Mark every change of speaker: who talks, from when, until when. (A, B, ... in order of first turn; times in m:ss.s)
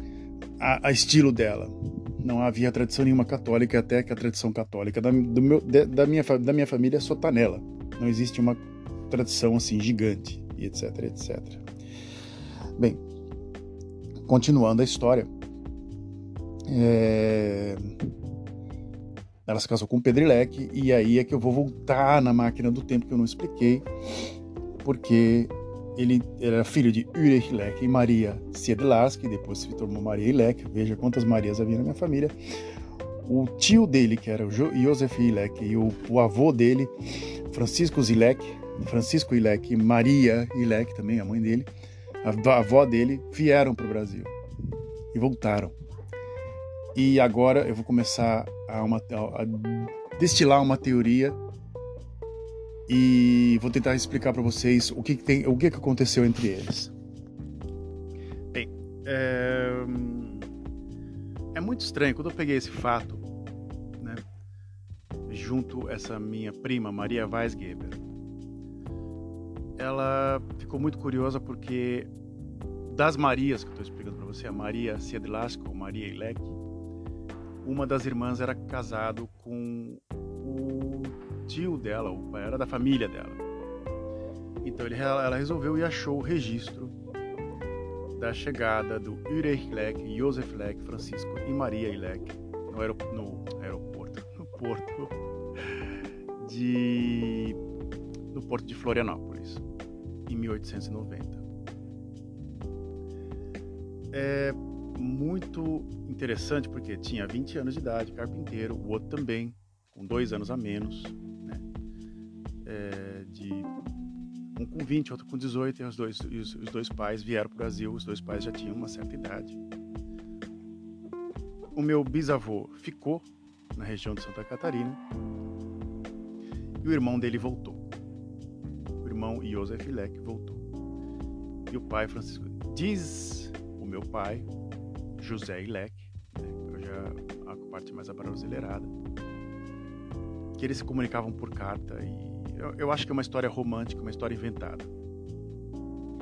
0:00.6-0:11.6 A
0:14.3-0:15.3 A
0:16.7-0:18.1 A
0:19.4-0:32.3 A
0:33.2-0:36.9 A
0:37.5-0:41.7 A
0:42.2-0:44.3 A
0:45.1-0:45.7 A
0:46.9-0:51.4 A
0:52.9-0:56.9 A
0:58.5-1:00.5 A
1:01.5-1:03.2 A
1:05.3-1:08.0 A
1:09.8-1:12.1 A
1:12.9-1:16.6 A
1:17.6-1:23.4 A
1:24.6-1:26.9 A
1:28.1-1:35.1 A
1:36.4-1:37.6 A
1:38.3-1:39.6 A
1:40.3-1:41.4 A
1:44.1-1:51.6 A
1:52.6-1:53.7 A
1:54.6-1:59.6 A
2:01.7-2:05.0 A
2:06.8-2:07.8 A
2:09.0-2:10.6 A
2:11.7-2:14.5 A
2:15.2-2:18.9 A
2:20.6-2:24.9 A